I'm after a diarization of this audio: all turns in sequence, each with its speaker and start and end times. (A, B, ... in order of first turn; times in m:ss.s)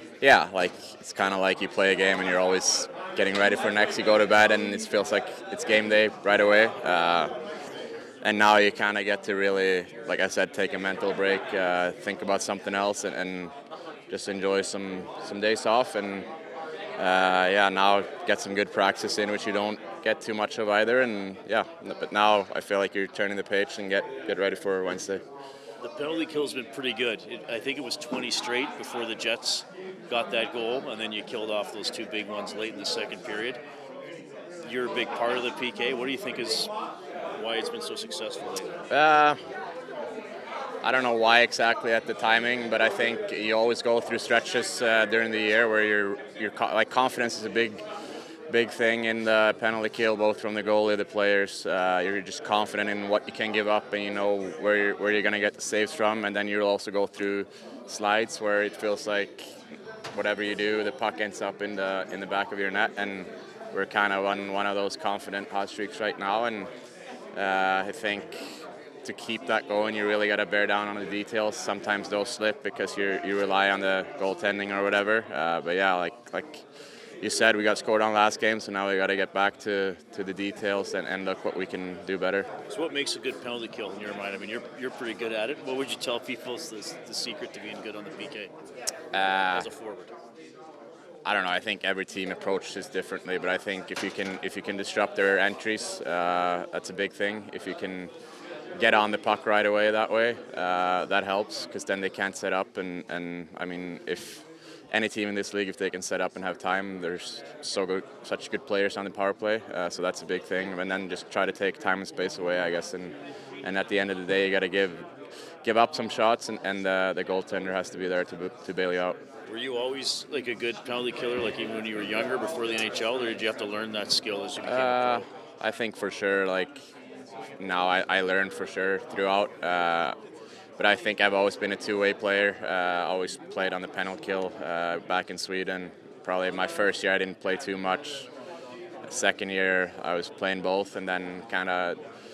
0:00.2-0:07.3 A
0:08.2-0:13.5 A
0:14.1-0:16.3 A
0:17.0-0:25.2 A
0:25.8-0:33.6 B
0:34.6-0:36.7 B
0:37.3-0:38.8 B
0:38.9-0:39.4 A
0:40.8-0:47.8 A
0:48.5-0:59.5 A
1:00.1-1:06.7 A
1:07.3-1:16.6 A
1:17.2-1:22.5 A
1:22.7-1:28.5 B
1:29.1-1:29.7 A
1:29.5-1:30.1 B
1:31.2-1:38.1 A
1:38.8-1:55.1 A
1:55.6-1:59.2 A
1:59.5-2:05.3 B
2:04.6-2:06.8 A
2:07.6-2:10.2 A
2:10.8-2:18.3 A
2:19.1-2:22.0 A